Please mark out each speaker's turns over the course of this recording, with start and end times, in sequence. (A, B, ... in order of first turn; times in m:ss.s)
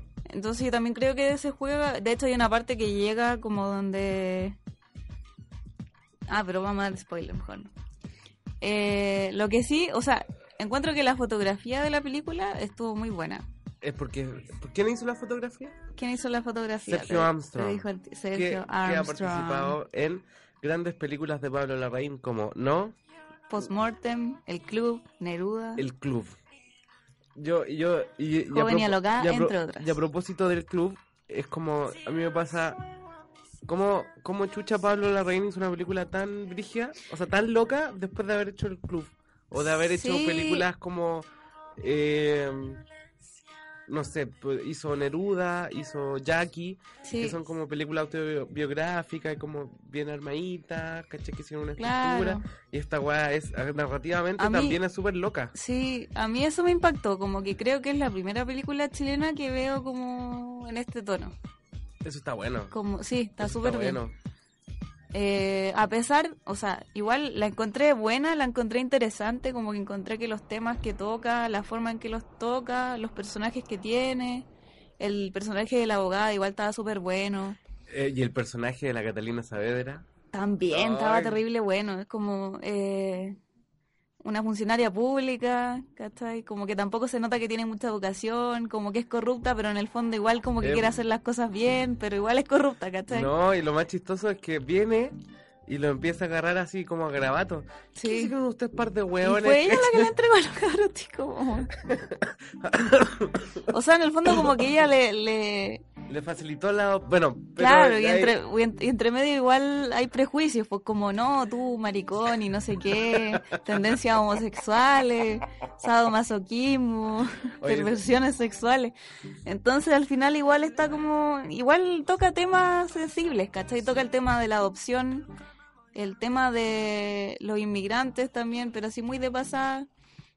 0:00.3-0:04.6 A
0:06.3-0:07.7 A
0:08.6-0:13.4 A
0:13.8-0:15.8 B
0:15.9-0:19.8 A
0:16.8-0:23.0 B
0:23.5-0:25.8 A
0:25.8-0:26.3 B
0:27.4-0:32.8 B
0:28.5-0:29.9 A
0:33.6-0:41.3 B
0:39.6-0:40.6 A
0:41.8-0:42.8 B
0:43.9-0:55.5 B
0:47.0-0:47.4 A
0:51.8-0:52.4 A
0:54.4-0:54.8 A
0:55.5-1:01.3 A
1:02.0-1:02.7 B
1:02.7-1:04.0 A
1:03.4-1:04.1 B
1:05.1-1:14.5 A
1:15.0-1:17.6 A
1:17.9-1:20.0 B
1:20.3-1:23.4 A
1:20.7-1:21.4 B
1:24.2-1:33.3 A
1:30.6-1:30.9 B
1:33.1-1:40.1 B
1:38.0-1:38.3 A
1:39.2-1:41.7 A
1:41.8-1:43.7 B
1:43.7-1:45.8 A
1:46.1-1:48.4 B
1:47.6-1:58.9 A
1:53.0-1:53.6 B
1:57.6-1:58.0 B
1:59.4-2:05.3 A
2:05.9-2:09.9 A